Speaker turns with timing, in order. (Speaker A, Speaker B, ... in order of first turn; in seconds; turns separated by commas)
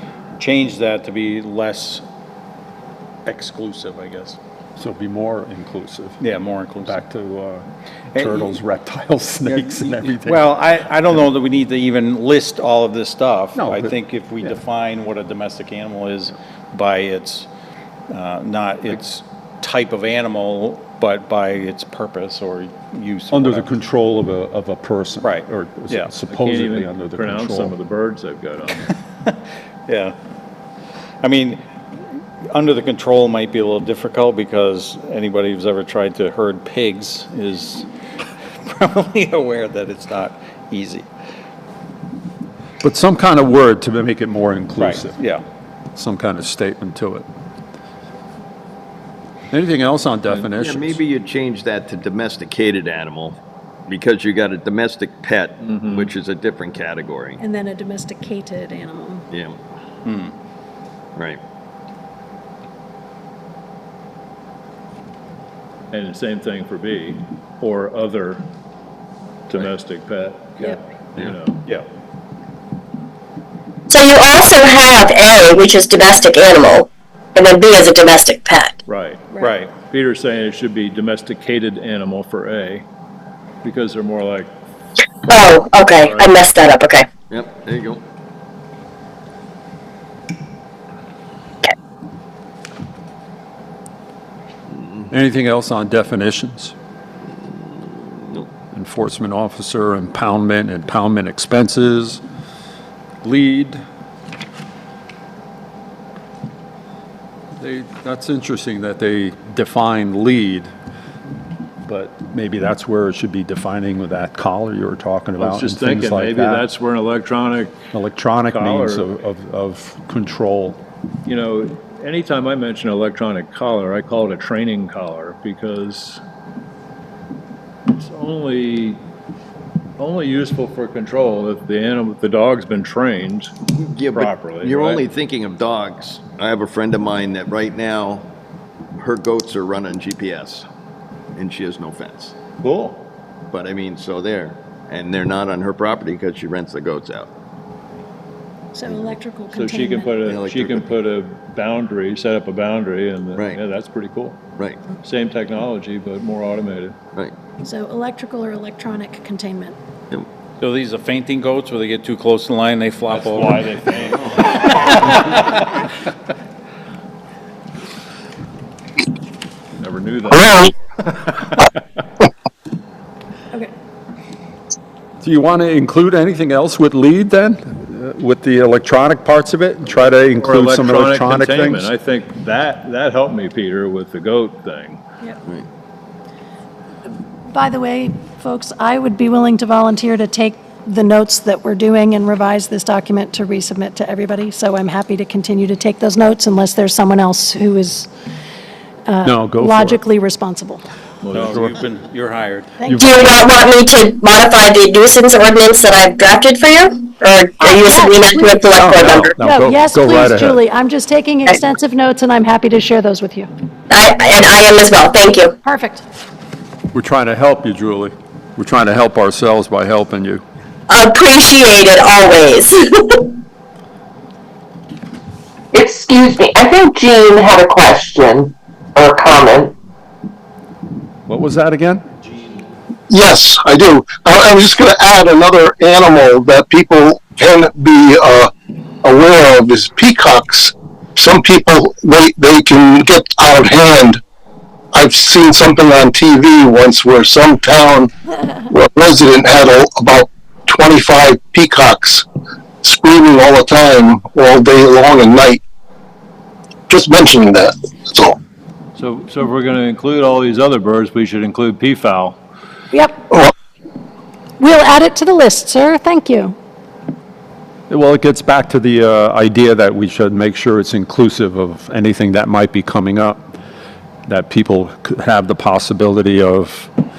Speaker A: 0.4-2.0, Speaker A: 3.2-4.4, Speaker B: 4.8-6.2, Speaker A: 6.2-7.0, Speaker B: 6.8-10.5, Speaker A: 8.1-8.5, Speaker A: 9.5-17.5, Speaker B: 13.5-14.0, Speaker A: 18.1-23.7, Speaker B: 23.3-27.7, Speaker A: 25.2-26.1, Speaker C: 26.3-28.9, Speaker A: 29.9-30.1, Speaker A: 31.2-31.6, Speaker A: 32.5-37.9, Speaker A: 38.6-41.1, Speaker B: 42.8-45.2, Speaker A: 44.8-45.4, Speaker B: 46.0-47.2, Speaker B: 49.5-51.0, Speaker D: 50.5-57.4, Speaker C: 55.6-56.1, Speaker E: 57.4-59.3, Speaker D: 59.3-59.6, Speaker A: 60.0-60.3, Speaker C: 65.9-68.4, Speaker C: 69.5-71.6, Speaker F: 73.9-78.7, Speaker C: 78.8-82.8, Speaker A: 79.4-79.7, Speaker C: 83.6-84.5, Speaker F: 85.3-87.1, Speaker D: 87.3-88.0, Speaker B: 95.1-96.7, Speaker D: 97.8-98.4, Speaker B: 98.7-102.2, Speaker B: 103.2-103.8, Speaker B: 107.6-110.7, Speaker B: 111.8-116.7, Speaker C: 115.4-117.7, Speaker B: 117.9-120.8, Speaker C: 118.5-119.1, Speaker C: 121.2-126.2, Speaker C: 127.9-129.0, Speaker C: 130.0-133.6, Speaker D: 133.7-138.3, Speaker C: 134.1-135.0, Speaker D: 138.9-140.6, Speaker D: 141.3-142.3, Speaker C: 142.6-143.0, Speaker D: 143.5-147.3, Speaker E: 148.7-150.2, Speaker D: 148.8-149.2, Speaker C: 149.5-154.4, Speaker D: 150.2-150.9, Speaker D: 153.3-153.6, Speaker C: 155.0-156.9, Speaker E: 157.6-159.8, Speaker A: 160.6-163.8, Speaker C: 163.1-165.1, Speaker A: 164.7-165.1, Speaker C: 169.8-171.4, Speaker G: 170.3-170.7, Speaker B: 175.2-181.9, Speaker C: 179.9-185.0, Speaker E: 187.5-198.1, Speaker E: 199.1-200.8, Speaker B: 199.2-200.0, Speaker C: 201.2-201.8, Speaker A: 201.3-202.7, Speaker B: 202.8-203.4, Speaker F: 203.0-209.4, Speaker E: 207.6-208.6, Speaker B: 208.7-210.6, Speaker E: 209.4-213.5, Speaker F: 213.9-215.5, Speaker E: 215.6-216.0, Speaker B: 216.9-220.4, Speaker F: 220.9-223.3, Speaker H: 225.7-229.7, Speaker B: 231.3-232.0, Speaker G: 233.1-238.5, Speaker G: 239.0-244.2, Speaker G: 244.9-248.1, Speaker G: 248.7-252.2, Speaker G: 252.8-255.6, Speaker G: 256.9-258.4, Speaker C: 259.0-262.4, Speaker E: 262.9-263.2, Speaker E: 264.6-266.6, Speaker B: 267.9-273.5, Speaker B: 274.3-276.9